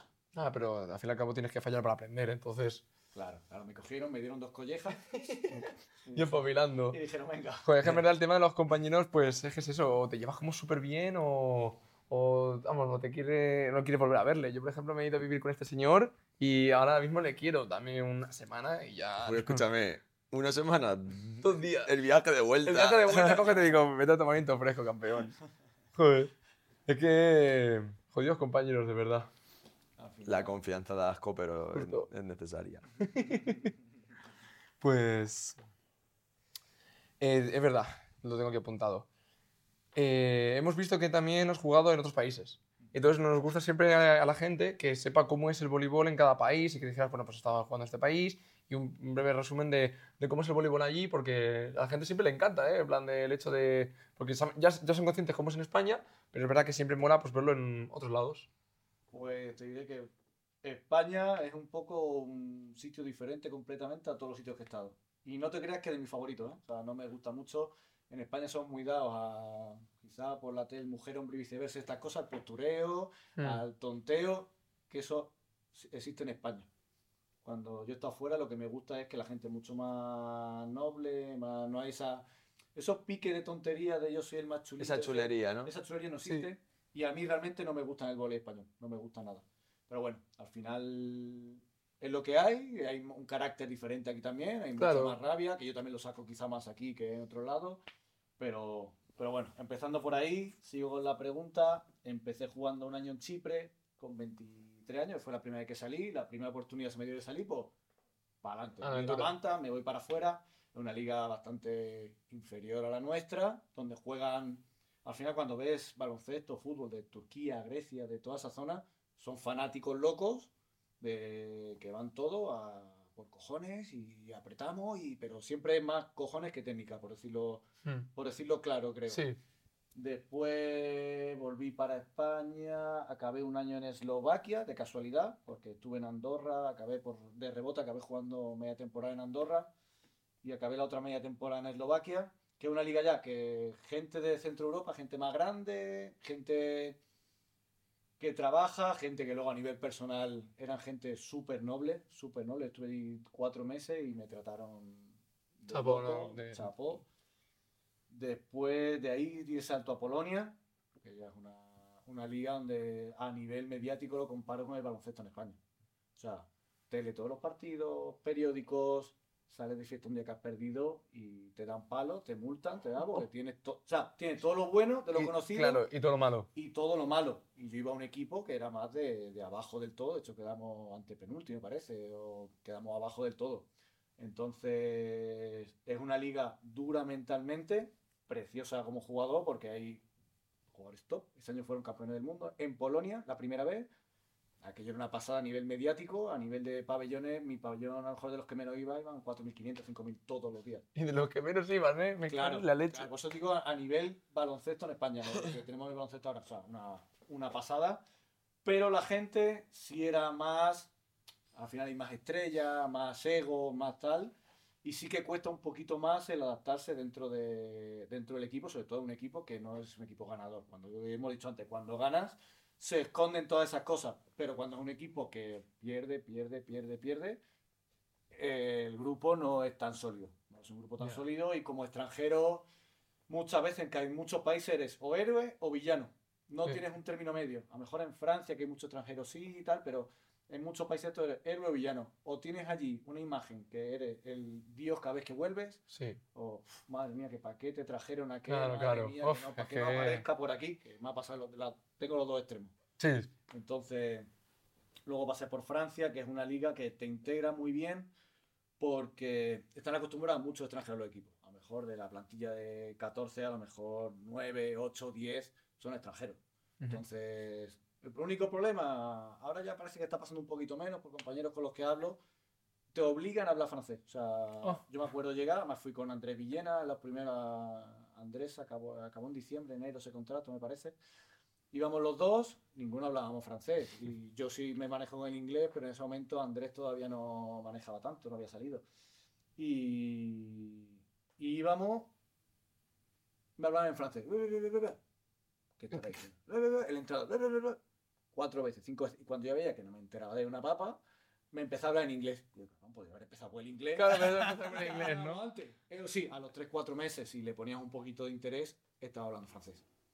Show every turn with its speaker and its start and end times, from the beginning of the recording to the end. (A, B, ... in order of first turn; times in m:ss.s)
0:00.3-0:02.8 A
0:03.1-0:05.0 B
0:05.0-0:07.0 A
0:06.0-0:08.0 B
0:07.6-0:19.6 A
0:19.2-0:23.4 C
0:21.4-0:21.9 A
0:22.6-0:25.4 A
0:26.0-0:26.3 A
0:26.9-0:29.3 A
0:30.0-0:30.6 B
0:30.2-0:32.8 C
0:31.7-0:32.1 A
0:33.0-0:33.7 A
0:34.8-0:35.6 A
0:37.2-0:39.1 A
0:39.9-0:58.5 A
0:59.1-1:00.1 B
1:00.6-1:16.7 B
1:17.4-1:37.8 B
1:24.8-1:25.7 C
1:34.8-1:35.1 A
1:38.4-1:47.7 B
1:48.4-2:09.2 B
1:48.8-1:49.3 A
2:09.1-2:09.4 A
2:09.9-2:19.7 B
2:20.4-2:27.0 B
2:28.2-2:37.0 B
2:35.7-2:36.7 A
2:38.1-2:45.6 B
2:46.2-2:55.8 B
2:55.1-2:56.5 A
2:56.5-3:10.0 B
3:10.7-3:13.9 B
3:14.6-3:20.8 B
3:20.9-3:23.1 A
3:22.3-3:28.0 B
3:28.6-3:30.9 B
3:31.5-3:47.4 B
3:48.3-3:52.6 B
3:53.3-4:05.8 B
4:05.9-4:06.2 A
4:06.3-4:12.7 B
4:08.5-4:10.2 A
4:13.0-4:13.3 A
4:13.5-4:14.3 B
4:15.0-4:18.1 B
4:18.8-4:32.2 B
4:32.9-4:41.0 B
4:41.7-4:48.8 B
4:49.6-4:52.1 B
4:53.6-4:55.0 B
4:55.8-4:57.8 B
4:58.3-5:01.0 B
5:01.5-5:09.8 B
5:04.0-5:05.4 A